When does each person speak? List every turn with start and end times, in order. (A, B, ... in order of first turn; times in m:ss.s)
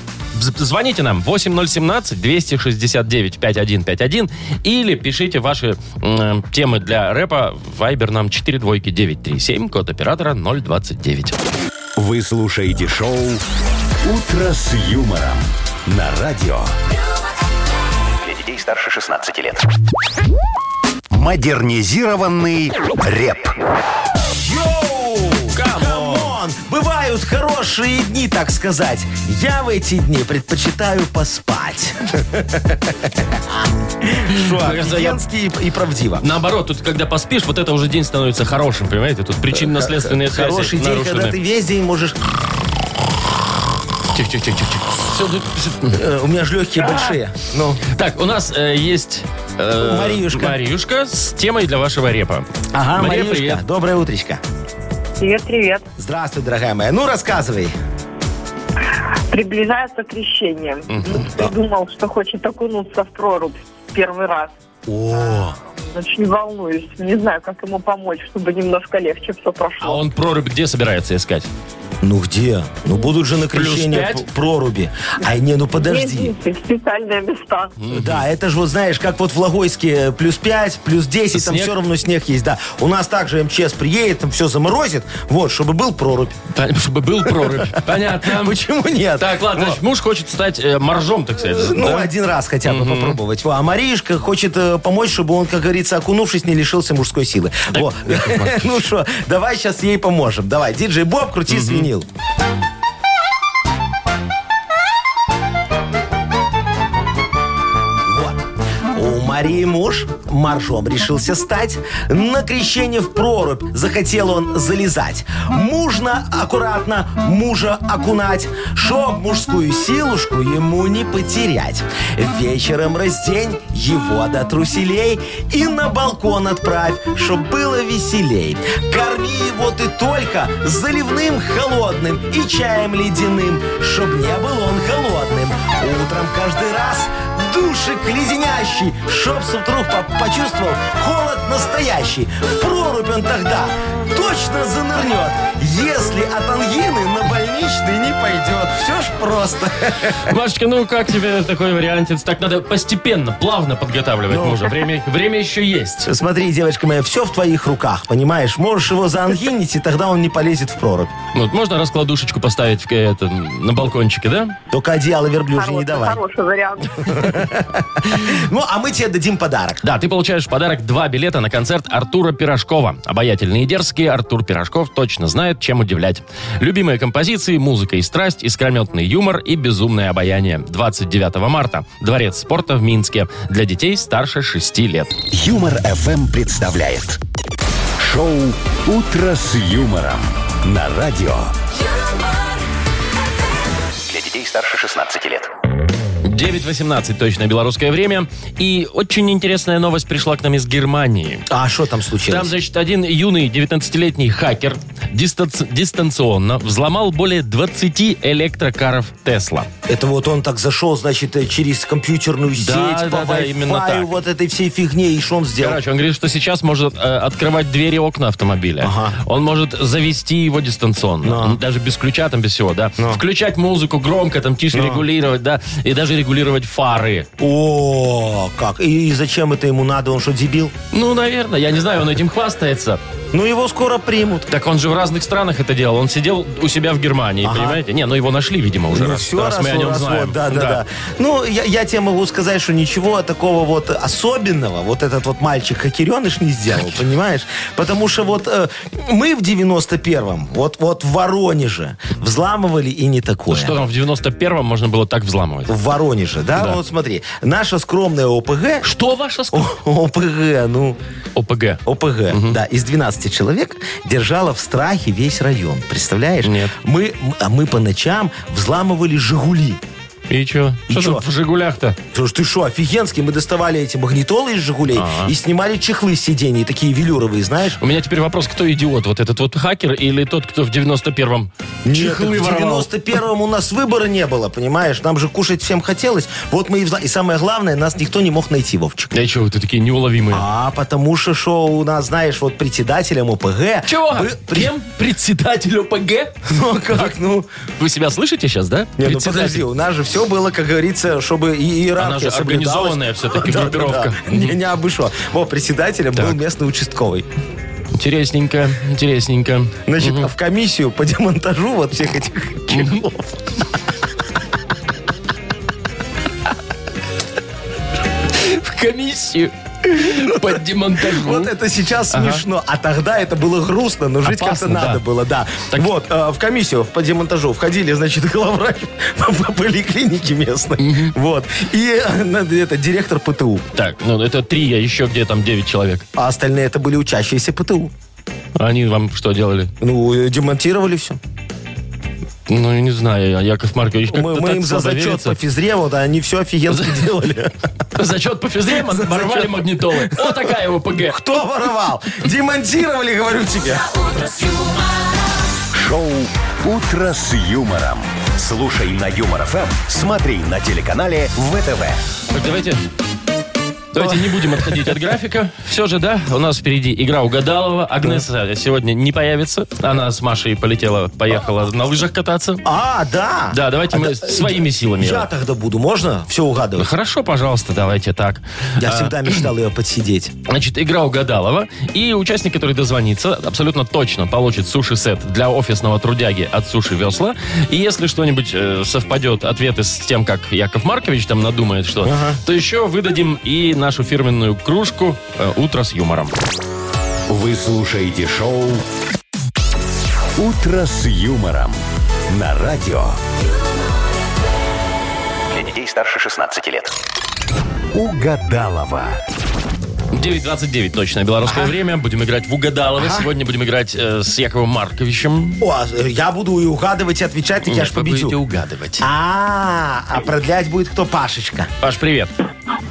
0:00.3-0:11.4 A
0:12.0-0:13.4 B
0:14.0-0:16.7 B
0:18.2-0:19.6 C
0:21.1-0:23.5 B
0:24.4-0:36.2 D
0:25.5-0:26.4 A
0:34.3-0:35.2 A
0:36.2-0:41.4 A
0:39.5-0:42.2 D
0:44.1-0:46.0 A
0:45.9-0:47.8 D
0:46.8-0:47.1 A
0:47.9-0:53.6 A
0:49.8-0:50.6 D
0:52.7-0:54.4 D
0:55.2-0:55.8 E
0:56.0-0:57.7 D
0:59.3-1:04.5 E
1:00.9-1:01.3 A
1:04.9-1:05.6 D
1:05.1-1:10.0 E
1:09.8-1:11.5 A
1:12.0-1:16.3 D
1:13.5-1:14.3 A
1:15.8-1:17.8 E
1:17.8-1:18.2 A
1:17.9-1:26.4 D
1:21.3-1:21.8 A
1:26.5-1:28.6 A
1:27.2-1:29.8 D
1:29.2-1:32.1 A
1:31.5-1:42.1 D
1:32.6-1:33.2 A
1:37.7-1:38.8 A
1:41.5-1:41.9 A
1:48.0-2:30.2 D
2:30.2-2:36.1 A
2:34.3-2:34.8 D
2:36.0-2:41.1 D
2:41.3-2:44.6 A
2:44.7-2:46.2 D
2:45.5-2:47.3 E
2:47.0-2:49.8 D
2:49.8-3:05.2 A
3:05.3-3:07.2 B
3:08.0-3:11.5 B
3:12.0-3:12.3 F
3:14.1-3:15.5 C
3:16.2-3:21.5 A
3:21.5-3:22.5 D
3:22.3-3:29.7 A
3:29.9-3:35.8 D
3:32.6-3:34.1 A
3:35.6-3:47.3 A
3:38.8-3:39.2 D
3:41.2-3:41.6 D
3:44.7-3:45.0 D
3:47.4-3:50.8 D
3:50.9-3:53.0 A
3:53.3-3:54.5 D
3:54.5-4:00.8 A
3:57.4-3:57.8 D
3:58.9-4:13.8 D
4:13.5-4:15.7 A
4:15.7-4:18.9 D
4:18.8-4:19.7 A
4:19.5-4:21.0 D
4:21.4-4:22.6 A
4:21.8-4:29.8 D
4:26.4-4:26.7 A
4:30.3-4:32.0 A
4:30.9-4:31.2 D
4:32.1-4:37.8 D
4:34.9-4:35.3 A
4:37.8-4:42.9 A
4:41.8-4:49.1 D
4:49.1-4:50.4 A
4:50.3-4:54.7 D
4:53.9-4:56.4 A
4:56.5-4:57.5 D
4:57.8-4:59.6 A
4:59.0-5:07.3 D
5:02.0-5:04.6 A
5:07.9-5:10.3 A
5:09.9-5:13.4 D
5:12.7-5:13.0 A
5:18.3-5:21.5 A
5:20.0-5:33.7 D
5:22.1-5:22.4 A
5:24.2-5:25.0 A
5:30.8-5:31.1 A
5:33.8-5:36.0 A
5:36.2-5:37.9 D
5:38.6-5:39.7 A
5:39.8-5:41.2 D
5:42.5-5:45.4 A
5:44.1-5:47.5 D
5:46.7-5:47.1 A
5:48.0-5:51.2 A
5:48.7-5:53.9 D
5:53.7-5:55.4 F
5:55.7-6:02.0 B
6:02.3-6:02.8 A
6:03.9-6:12.6 A
6:04.0-6:04.9 D
6:12.6-6:16.9 D
6:13.5-6:15.3 A
6:16.8-6:19.5 A
6:18.8-6:20.4 D
6:20.5-6:36.3 A
6:32.0-6:32.4 D
6:37.3-6:38.8 B
6:40.4-6:43.2 B
6:45.5-6:46.9 C
6:47.9-6:49.2 B
6:50.1-6:55.6 A
6:51.5-6:51.8 D
6:53.0-6:53.3 D
6:55.6-6:58.4 D
6:57.6-6:59.1 A
6:59.0-7:01.7 D
7:01.8-7:02.3 A